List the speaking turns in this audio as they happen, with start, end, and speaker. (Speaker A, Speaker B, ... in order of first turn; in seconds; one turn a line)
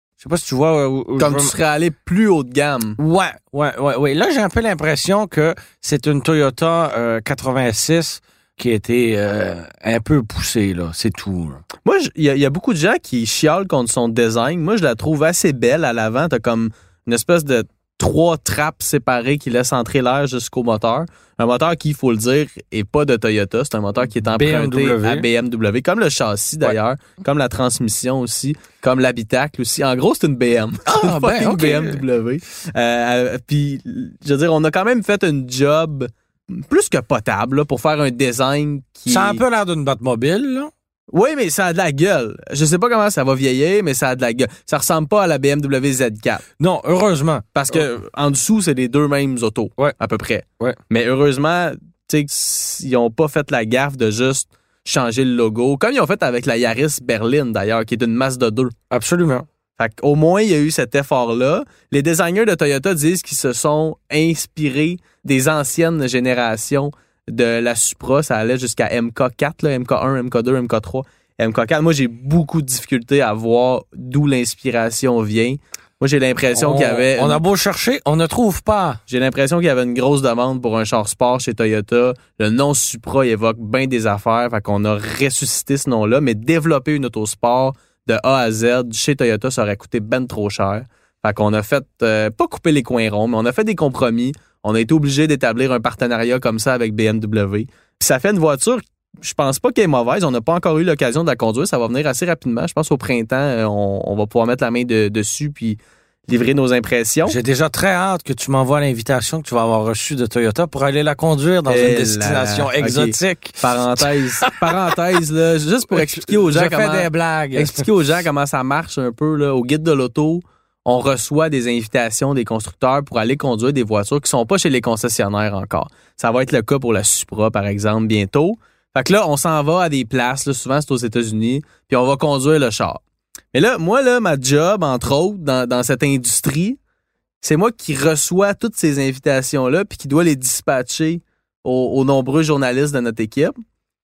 Speaker A: 0.2-1.5
Speaker B: 1.2-3.0
Speaker A: 3.0-11.6
Speaker B: 11.8-39.4
Speaker A: 24.2-25.2
Speaker A: 30.9-32.0
Speaker A: 39.1-40.7
Speaker B: 41.1-46.4
Speaker A: 46.6-47.8
Speaker B: 47.5-58.7
Speaker A: 58.9-59.5
Speaker B: 59.8-77.4
Speaker A: 76.5-79.0
Speaker B: 79.1-107.4
Speaker A: 107.2-114.9
Speaker B: 111.7-133.0
Speaker A: 115.9-117.9
Speaker B: 133.5-136.8
Speaker B: 137.4-143.5